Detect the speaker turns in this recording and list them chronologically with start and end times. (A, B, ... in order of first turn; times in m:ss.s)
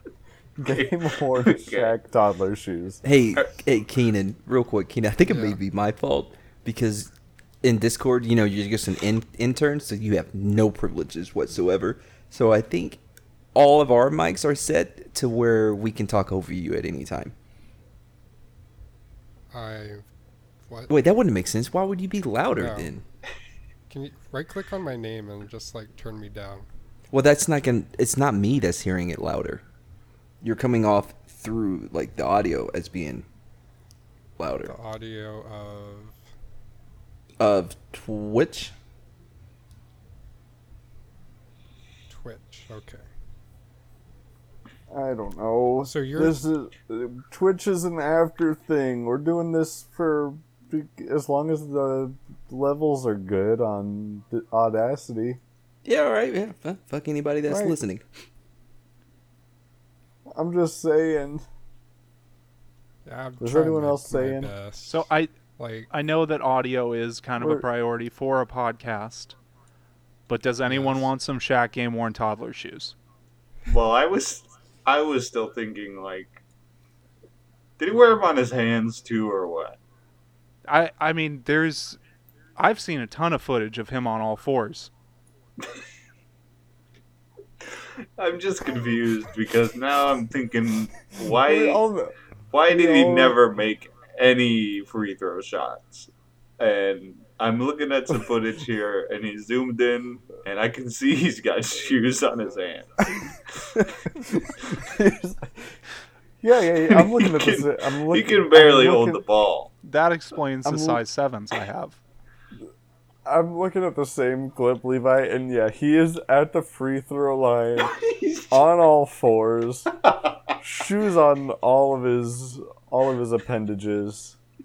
0:00.6-0:03.0 A
0:00.7-0:01.9 B
0:03.0-0:07.1 C
0:05.2-0:05.6 D
0:07.6-0:13.0 C
0:13.5-0:17.3 C
0:19.5-0:20.0 D
0:20.9-0:23.0 C
0:22.6-0:22.9 D
0:23.9-0:26.7 D
0:27.1-0:29.6 C
0:30.4-0:33.2 C
0:34.4-0:34.7 C
0:34.6-0:36.2 D
0:37.4-0:38.7 C
0:42.1-0:43.0 D
0:44.9-0:55.4 A
0:45.8-0:46.4 D
0:55.8-0:58.0 C
0:57.5-0:57.8 A
1:00.3-1:01.4 A
1:03.0-1:05.1 D
1:03.4-1:04.5 A
1:04.8-1:05.3 E
1:05.6-1:05.9 D
1:05.9-1:09.3 E
1:07.4-1:07.6 A
1:10.3-1:12.9 E
1:10.7-1:11.1 D
1:13.6-1:16.4 B
1:17.8-1:19.8 B
1:20.6-1:22.0 E
1:22.6-1:24.9 E
1:27.6-1:31.8 B
1:31.2-1:32.1 A
1:32.5-1:43.2 B
1:32.7-1:33.4 A
1:43.7-1:45.7 A
1:46.4-1:49.2 A
1:46.9-1:49.7 B
1:49.8-1:52.0 E
1:50.6-1:51.0 A
1:53.2-1:57.9 A
1:57.8-1:58.6 B
1:58.5-1:59.9 A
2:00.0-2:00.3 B
2:00.6-2:04.4 A